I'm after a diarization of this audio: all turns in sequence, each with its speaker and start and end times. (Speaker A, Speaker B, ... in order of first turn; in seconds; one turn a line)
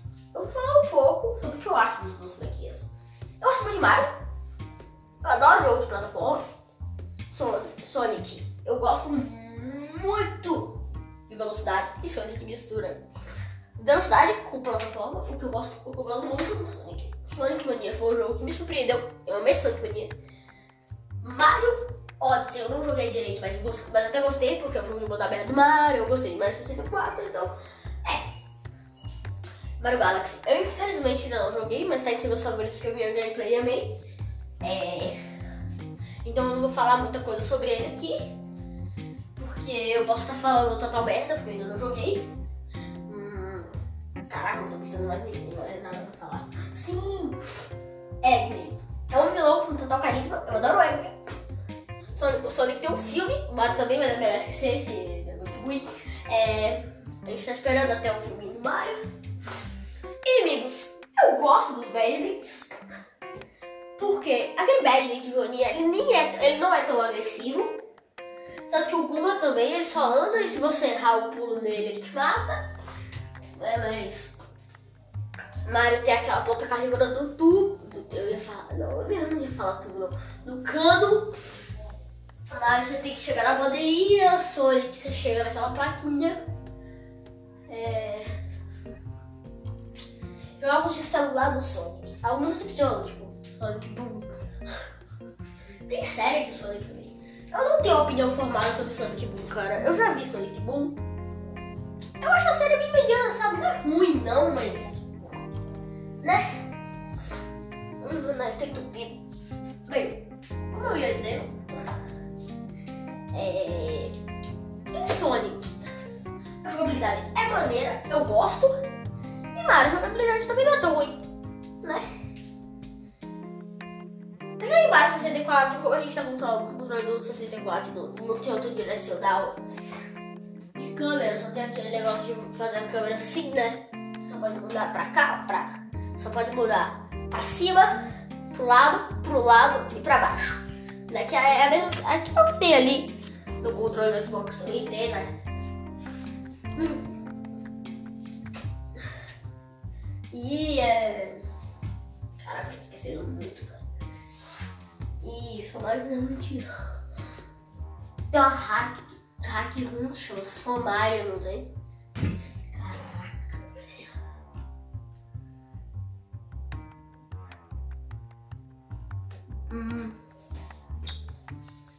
Speaker A: 0.3-4.2
Speaker A: 5.2-6.5
Speaker A: 7.3-13.1
Speaker A: 13.8-20.1
Speaker A: 21.2-28.3
Speaker A: 29.8-34.0
Speaker A: 34.6-35.2
Speaker A: 36.2-38.3
Speaker A: 39.4-42.3
Speaker A: 43.1-47.7
Speaker A: 48.2-51.2
Speaker A: 52.1-59.0
Speaker A: 60.2-62.8
Speaker A: 64.0-67.8
Speaker A: 68.7-72.7
Speaker A: 73.5-74.3
Speaker A: 75.7-81.3
Speaker A: 82.5-86.4
Speaker A: 87.7-88.3
Speaker A: 90.6-94.3
Speaker A: 95.9-101.0
Speaker A: 102.2-105.1
Speaker A: 106.2-106.6
Speaker A: 108.0-109.2
Speaker A: 109.9-111.6
Speaker A: 113.3-114.2
Speaker A: 114.9-115.8
Speaker A: 116.6-118.7
Speaker A: 119.5-121.2
Speaker A: 121.8-122.1
Speaker A: 124.6-129.6
Speaker A: 130.7-145.3
Speaker A: 146.8-147.1
Speaker A: 150.3-151.4
Speaker A: 152.4-153.8
Speaker A: 155.2-156.7
Speaker A: 158.3-161.7
Speaker A: 162.7-164.1
Speaker A: 169.7-170.2